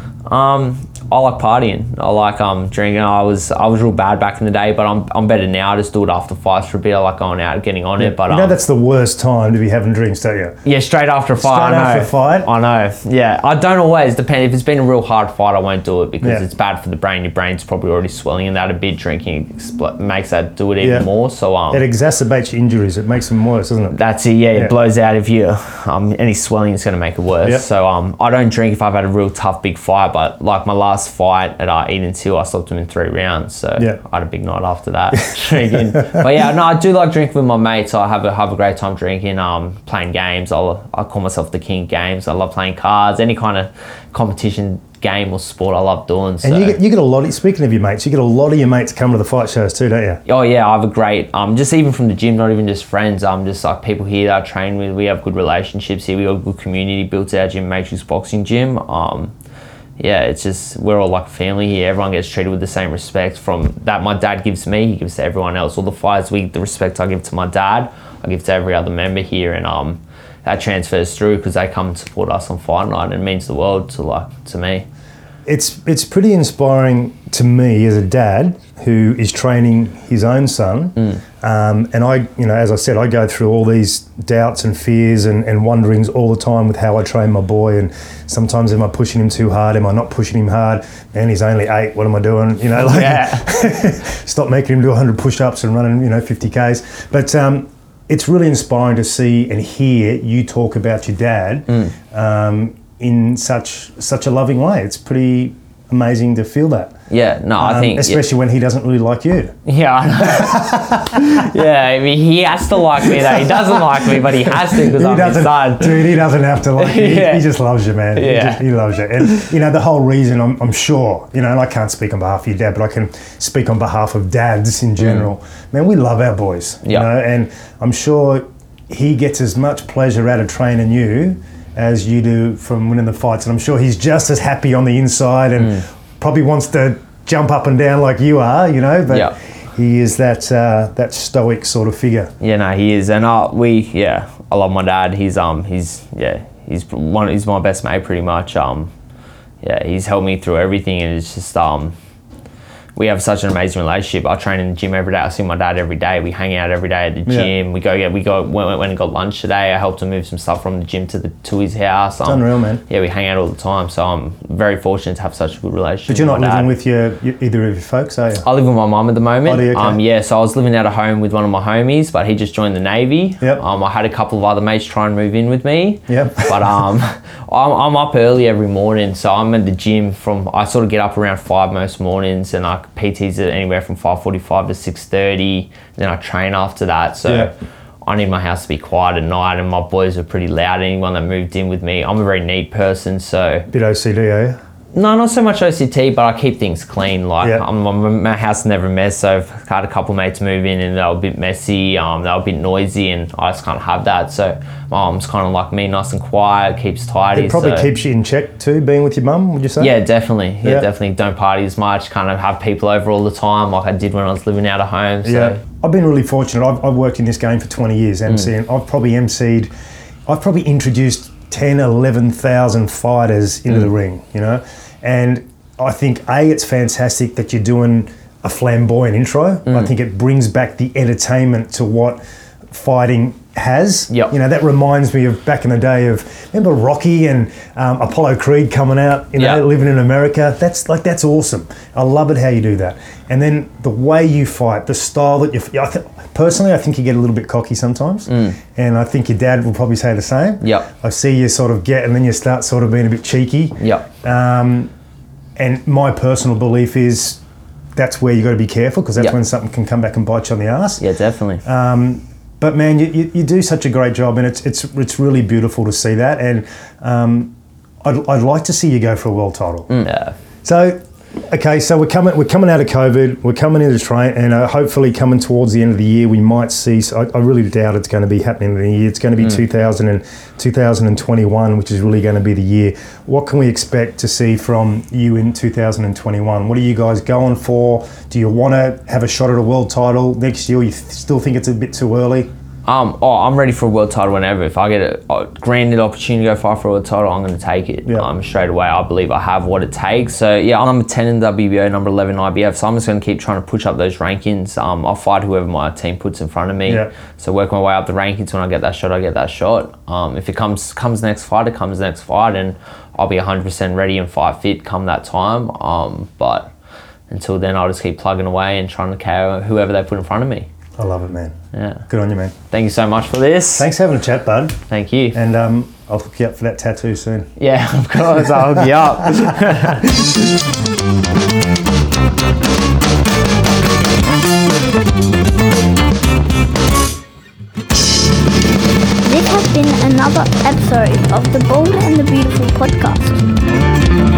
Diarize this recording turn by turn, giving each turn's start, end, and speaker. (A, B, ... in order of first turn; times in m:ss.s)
0:00.3-0:08.6 A
0:08.0-0:10.6 B
0:10.6-0:21.8 A
0:11.4-0:12.5 B
0:20.8-0:21.1 B
0:21.7-0:24.0 B
0:23.9-0:46.8 A
0:35.7-0:36.2 B
0:46.4-0:50.2 B
0:50.3-0:59.3 A
1:00.0-1:14.9 A
1:15.5-1:47.0 B
1:32.8-1:33.5 A
1:47.1-1:48.2 A
1:47.6-1:49.6 B
1:49.7-1:56.1 A
1:50.2-1:51.5 B
1:53.0-2:22.3 B
1:56.8-1:57.5 A
1:58.2-1:58.6 A
2:05.0-2:05.2 A
2:19.1-2:19.4 A
2:22.4-2:28.9 A
2:29.6-2:32.0 A
2:33.0-2:46.7 A
2:37.3-2:37.5 B
2:42.2-2:42.8 B
2:46.1-2:48.5 B
2:48.4-3:13.7 A
2:49.4-2:50.0 B
2:56.1-2:56.6 B
3:13.7-3:14.6 B
3:14.9-3:27.9 A
3:27.3-3:29.9 B
3:29.8-3:35.6 A
3:35.2-3:39.7 B
3:40.3-4:14.9 B
3:59.4-3:59.6 A
4:08.3-4:08.6 A
4:10.6-4:10.9 A
4:13.8-4:14.1 A
4:15.6-4:17.4 B
4:18.0-4:21.0 B
4:21.0-4:21.6 A
4:21.6-4:30.1 B
4:29.9-4:30.4 A
4:30.6-4:52.5 B
4:52.9-5:16.7 A
5:06.9-5:07.1 B
5:17.3-5:20.7 A
5:21.0-5:21.6 B
5:21.7-5:22.0 A
5:22.1-5:22.6 B
5:22.7-5:23.9 A
5:23.8-5:24.8 B
5:24.9-5:25.4 A
5:25.3-5:27.5 B
5:27.6-5:30.2 A
5:28.4-5:30.1 B
5:39.2-5:43.4 C